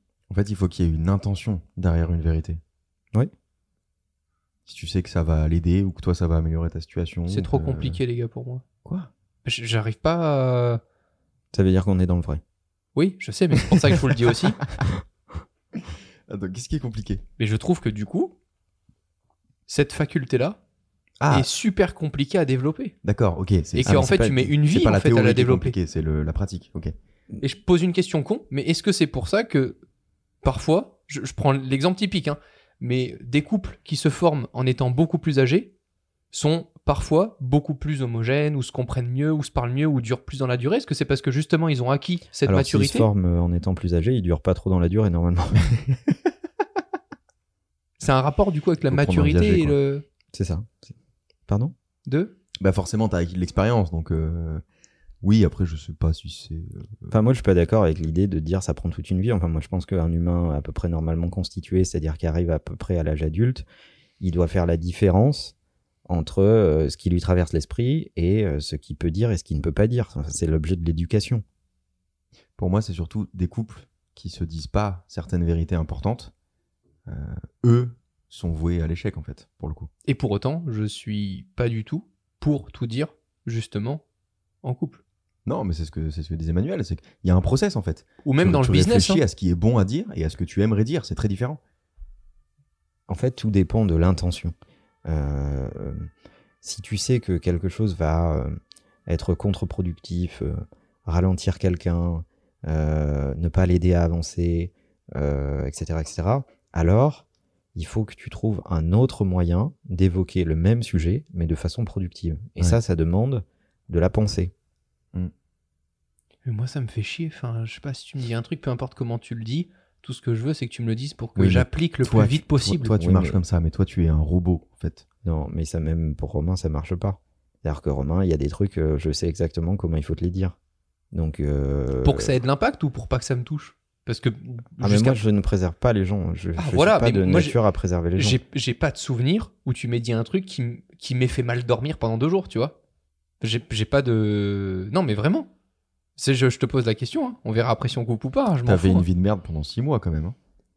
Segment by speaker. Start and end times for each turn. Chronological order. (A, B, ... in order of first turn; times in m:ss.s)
0:00.3-0:02.6 A
0:04.7-0:08.0 A
0:07.3-0:08.6 B
0:08.8-0:09.1 A
0:09.4-0:10.8 B
0:11.5-0:12.4 C
0:13.0-0:14.6 B
0:16.3-0:17.2 A
0:17.4-0:18.4 B
0:19.7-0:20.6 B
0:21.2-0:21.5 A
0:21.3-0:23.0 B
0:23.0-0:26.9 A
0:23.8-0:25.8 B
0:23.8-0:24.5 C
0:27.4-0:29.8 B
0:30.4-0:35.7 B
0:36.3-0:43.1 B
0:42.4-0:45.7 C
0:48.0-0:50.0 B
0:48.9-0:49.8 A
0:50.3-0:50.9 C
0:51.5-0:51.7 C
0:52.1-0:52.4 B
0:52.6-0:54.6 A
0:55.2-0:57.1 A
0:57.1-1:03.6 C
1:04.2-1:05.6 C
1:06.1-1:11.4 C
1:12.6-1:16.3 A
1:17.1-1:19.9 A
1:20.1-1:24.0 B
1:24.6-1:25.0 B
1:25.5-1:31.6 A
1:28.2-1:29.2 B
1:33.1-1:34.6 C
1:35.1-1:36.1 C
1:36.6-1:54.5 C
1:56.4-2:03.0 B
2:01.4-2:05.1 A
2:03.0-2:03.4 C
2:05.2-2:10.6 C
2:11.1-2:12.3 C
2:12.0-2:15.2 B
2:14.8-2:18.4 C
2:16.6-2:17.6 B
2:18.2-2:22.8 B
2:23.4-2:25.5 B
2:26.2-2:29.0 B
2:28.6-2:30.4 A